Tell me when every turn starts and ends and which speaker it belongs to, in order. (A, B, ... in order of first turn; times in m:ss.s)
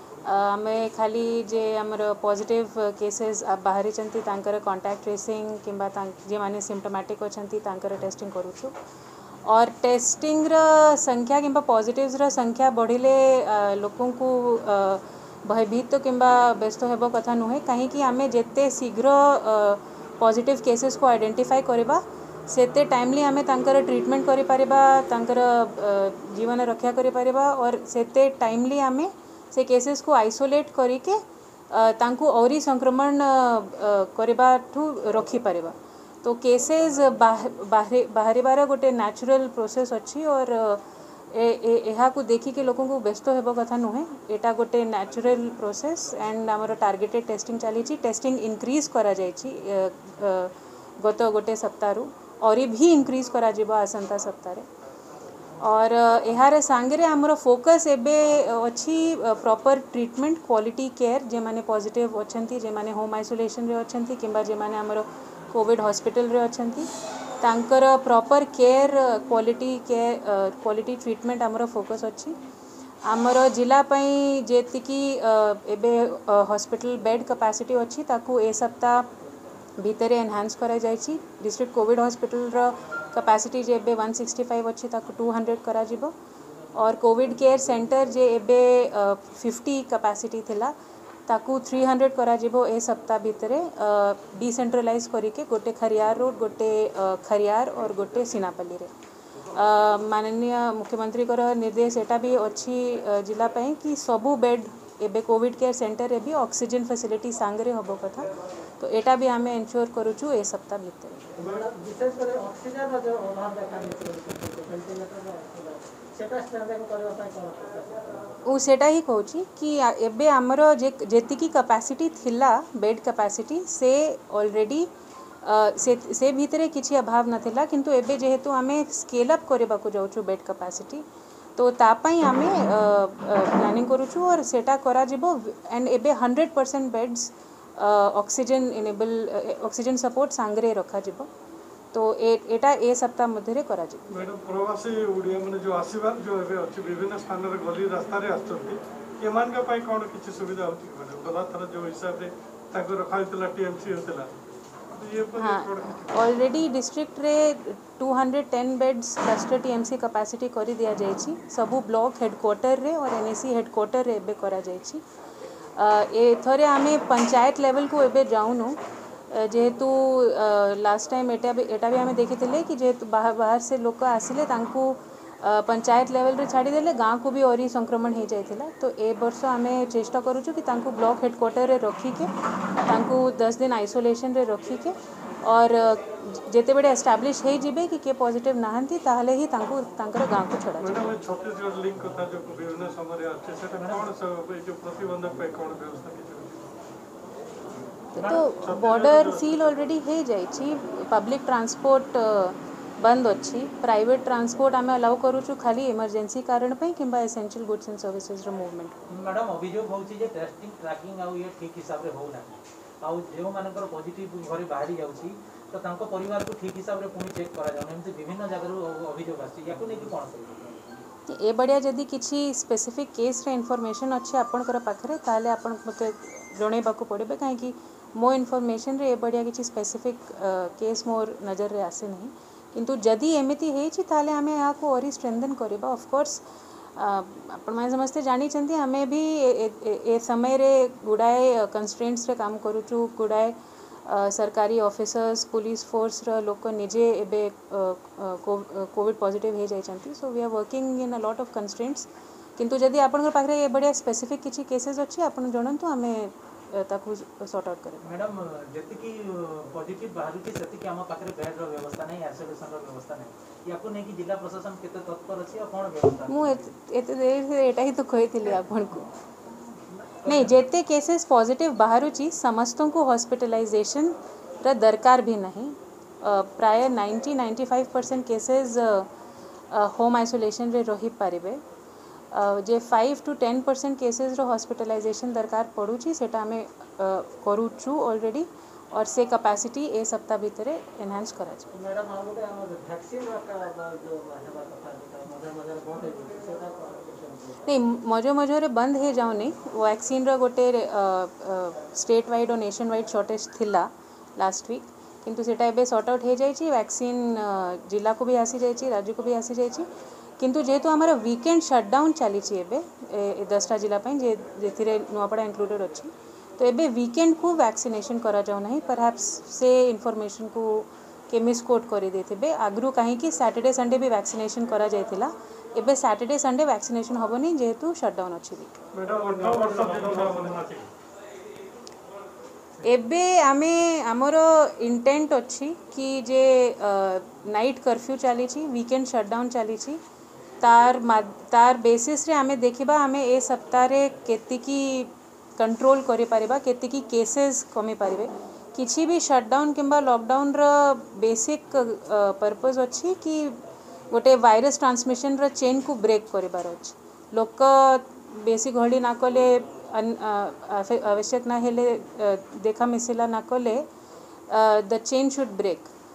0:00.2-0:08.8 A
0:09.5-0:54.7 A
0:55.6-1:06.9 A
1:07.4-1:12.4 A
1:13.0-1:19.1 A
1:19.8-1:26.1 A
1:26.7-1:30.8 A
1:31.3-1:38.9 A
1:39.5-1:51.3 A
1:51.4-1:58.3 B
1:58.4-2:04.9 A
2:05.4-2:11.0 A
2:11.6-2:21.3 A
2:21.9-2:24.1 A
2:24.1-2:34.3 C
2:34.9-2:36.3 C
2:35.4-2:45.0 A
2:45.8-2:48.8 A
2:49.3-3:02.3 A
3:02.8-3:11.1 A
3:10.8-3:16.7 C
3:13.7-3:14.2 D
3:18.1-3:29.0 A
3:18.2-3:18.5 D
3:18.6-3:19.6 C
3:29.1-3:41.0 D
3:41.3-3:56.4 A
3:57.0-4:18.1 A
4:18.0-4:26.7 D
4:26.3-4:29.1 A
4:30.2-4:30.6 D
4:30.2-4:39.1 A
4:39.7-4:41.6 A
4:42.3-4:51.7 A
4:51.7-4:57.6 B
4:57.6-5:09.9 A
5:10.4-5:28.8 A
5:28.9-5:30.8 C
5:32.8-5:40.0 A
5:40.6-6:03.9 A
6:04.5-6:05.9 A